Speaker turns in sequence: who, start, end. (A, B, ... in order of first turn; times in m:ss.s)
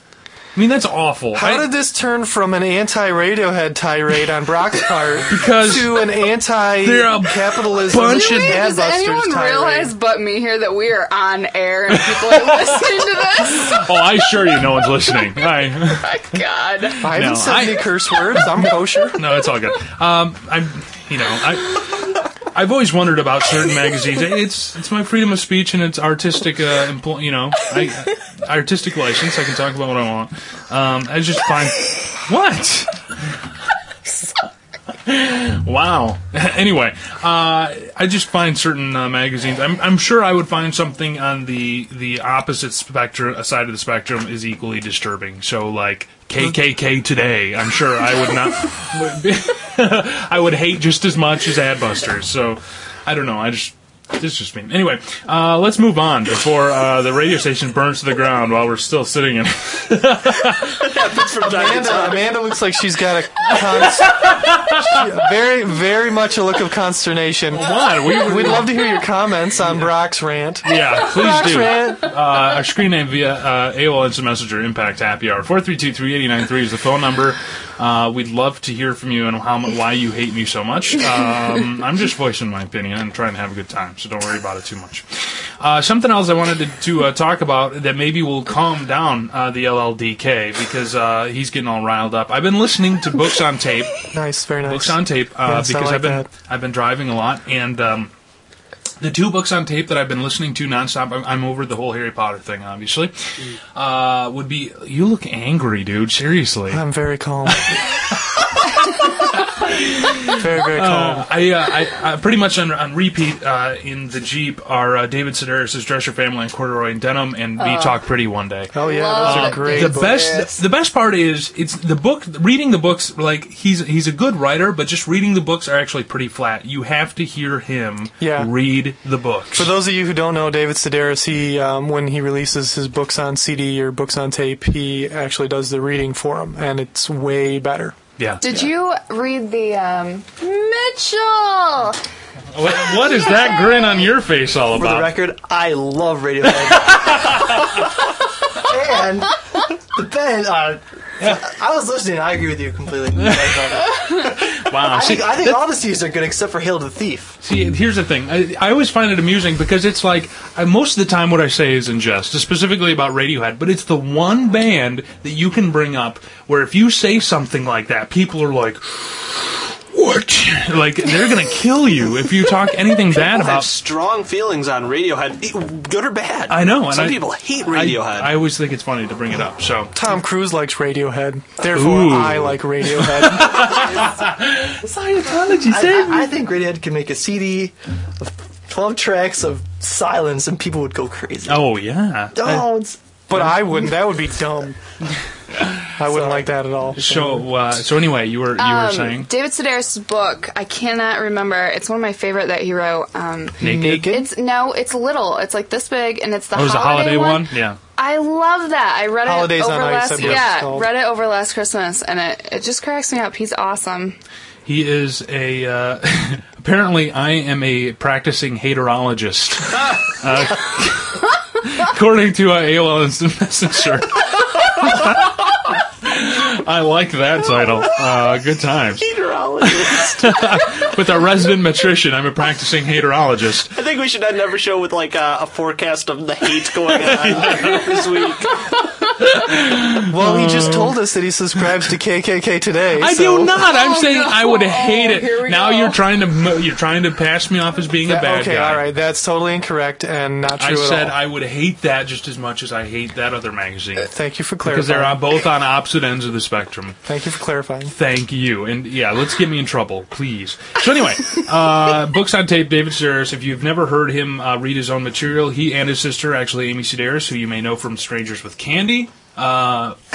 0:00.5-0:01.7 A
0:01.3-0:09.9 B
0:05.3-0:06.2 A
0:06.8-0:08.6 A
0:07.9-0:13.8 C
0:12.1-0:12.8 A
0:13.5-0:16.0 A
0:15.8-0:17.0 C
0:17.0-0:33.0 A
0:17.0-0:19.2 B
0:35.0-1:00.8 A
1:00.8-1:02.3 D
1:01.4-1:12.1 B
1:03.5-1:05.0 A
1:07.5-1:08.9 A
1:10.6-1:34.0 A
1:34.1-1:36.3 B
1:34.6-1:38.1 A
1:39.0-1:43.1 A
1:43.7-1:46.8 A
1:46.7-1:47.7 B
1:47.4-2:09.7 A
1:50.3-1:51.3 B
1:57.6-1:58.0 C
1:58.7-2:00.2 B
1:58.8-2:00.6 C
2:08.2-2:08.5 B
2:09.5-2:18.0 B
2:18.2-2:18.5 A
2:18.4-2:22.0 C
2:22.5-2:25.2 A
2:23.4-2:23.8 C
2:24.7-2:28.0 E
2:26.7-2:27.7 A
2:28.5-2:29.4 E
2:29.9-2:37.4 E
2:34.0-2:35.6 A
2:37.4-2:53.7 A
2:53.1-2:58.4 D
2:56.5-2:59.9 A
2:59.9-3:03.9 B
3:01.7-3:06.3 A
3:04.8-3:11.7 E
3:11.5-3:12.7 A
3:12.3-3:13.0 E
3:13.3-3:14.8 B
3:13.3-3:13.7 A
3:15.5-3:15.9 A
3:16.0-3:17.4 B
3:16.0-3:16.5 E
3:16.9-3:19.3 A
3:18.6-3:34.2 C
3:23.6-3:24.3 B
3:23.6-3:24.1 A
3:26.5-3:27.8 A
3:29.2-3:30.9 B
3:34.6-3:49.1 A
3:49.0-3:50.4 D
3:49.6-3:53.7 A
3:53.7-3:58.6 D
3:56.9-3:58.1 A
3:59.2-4:01.0 A
4:00.0-4:03.7 B
4:03.0-4:08.8 A
4:03.7-4:06.0 C
4:08.0-4:11.2 B
4:10.6-4:14.1 A
4:14.0-4:15.2 B
4:14.6-4:17.0 A
4:17.0-4:17.9 B
4:17.9-4:30.0 A